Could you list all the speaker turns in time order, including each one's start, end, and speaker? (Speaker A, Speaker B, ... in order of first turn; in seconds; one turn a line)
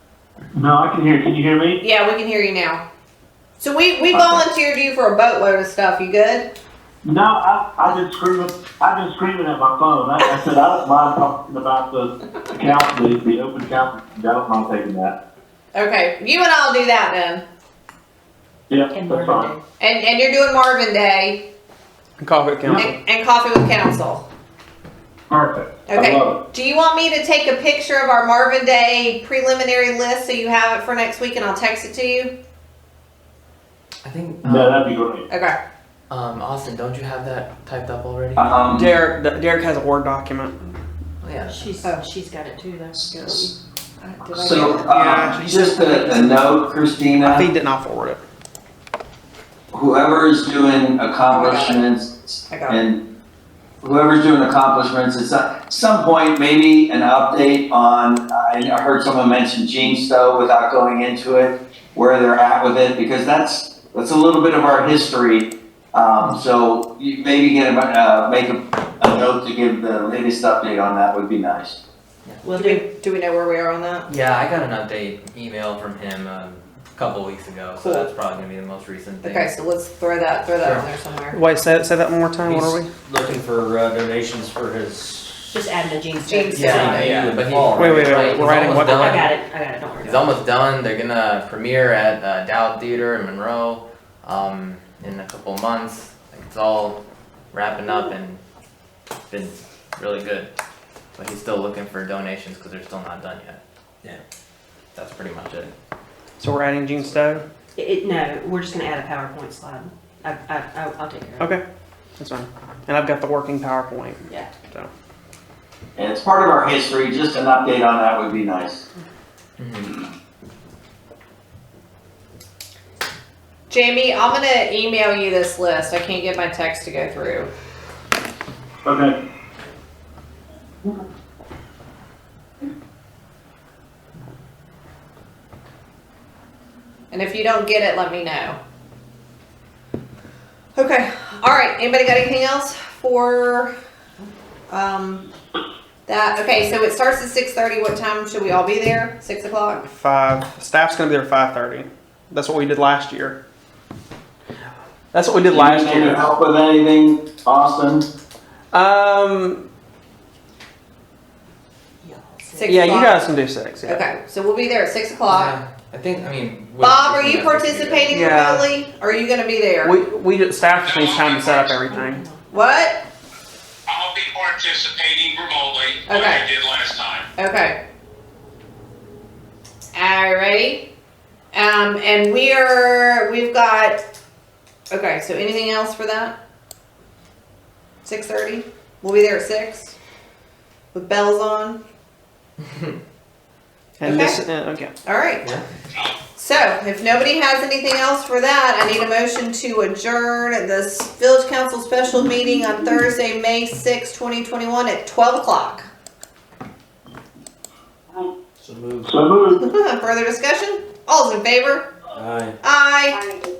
Speaker A: 0.5-1.8
Speaker B: 1.8-2.8
Speaker B: 3.6-6.5
Speaker A: 4.1-4.4
Speaker A: 7.0-15.2
Speaker B: 15.7-17.4
Speaker A: 18.7-19.5
Speaker C: 18.9-19.6
Speaker B: 19.8-21.4
Speaker D: 22.2-22.9
Speaker B: 22.7-24.2
Speaker A: 25.3-26.4
Speaker B: 25.9-32.3
Speaker E: 34.0-35.0
Speaker A: 34.4-35.2
Speaker B: 35.3-35.6
Speaker E: 36.1-38.7
Speaker F: 38.4-38.9
Speaker D: 38.7-40.7
Speaker E: 41.2-41.7
Speaker C: 41.5-43.5
Speaker F: 43.0-43.5
Speaker B: 44.0-45.0
Speaker F: 44.3-47.5
Speaker D: 44.9-46.6
Speaker D: 47.2-48.2
Speaker F: 49.7-53.0
Speaker B: 51.3-51.8
Speaker B: 52.5-52.8
Speaker F: 53.8-71.8
Speaker C: 72.4-72.8
Speaker B: 72.5-74.1
Speaker E: 74.1-79.5
Speaker B: 79.2-81.4
Speaker E: 80.6-80.9
Speaker D: 81.3-82.9
Speaker G: 82.4-85.6
Speaker C: 85.5-87.1
Speaker B: 86.2-87.2
Speaker E: 86.5-89.3
Speaker G: 86.6-88.1
Speaker D: 87.8-89.0
Speaker C: 88.6-90.4
Speaker E: 90.0-97.0
Speaker E: 97.5-98.4
Speaker E: 99.3-100.5
Speaker E: 101.2-103.6
Speaker E: 104.9-105.7
Speaker D: 106.4-107.4
Speaker C: 107.8-111.5
Speaker D: 112.2-114.9
Speaker F: 116.0-118.8
Speaker E: 119.6-120.0
Speaker B: 123.7-127.5
Speaker A: 128.8-129.2
Speaker B: 137.1-138.6
Speaker B: 140.7-143.7
Speaker B: 144.7-145.2
Speaker B: 146.1-149.8
Speaker D: 149.8-153.4
Speaker D: 155.1-156.2
Speaker F: 155.5-158.1
Speaker D: 158.7-159.6
Speaker C: 162.0-163.0
Speaker B: 162.6-163.2
Speaker D: 162.6-164.0
Speaker B: 163.8-165.6
Speaker E: 165.3-168.2
Speaker B: 166.8-170.0
Speaker D: 168.1-168.7
Speaker D: 169.8-172.2
Speaker H: 170.7-171.8
Speaker C: 171.8-172.4
Speaker B: 172.5-173.0
Speaker H: 173.9-177.3
Speaker B: 176.1-176.5
Speaker B: 177.4-177.8
Speaker B: 179.9-180.9
Speaker B: 181.5-184.0
Speaker B: 184.9-186.3
Speaker B: 188.0-189.9
Speaker B: 190.9-191.8
Speaker D: 194.0-194.9
Speaker B: 194.0-194.4
Speaker B: 195.0-195.4
Speaker B: 196.3-205.8
Speaker G: 208.6-209.1
Speaker A: 209.1-209.6
Speaker B: 209.6-211.9
Speaker G: 212.1-212.5
Speaker B: 212.6-213.2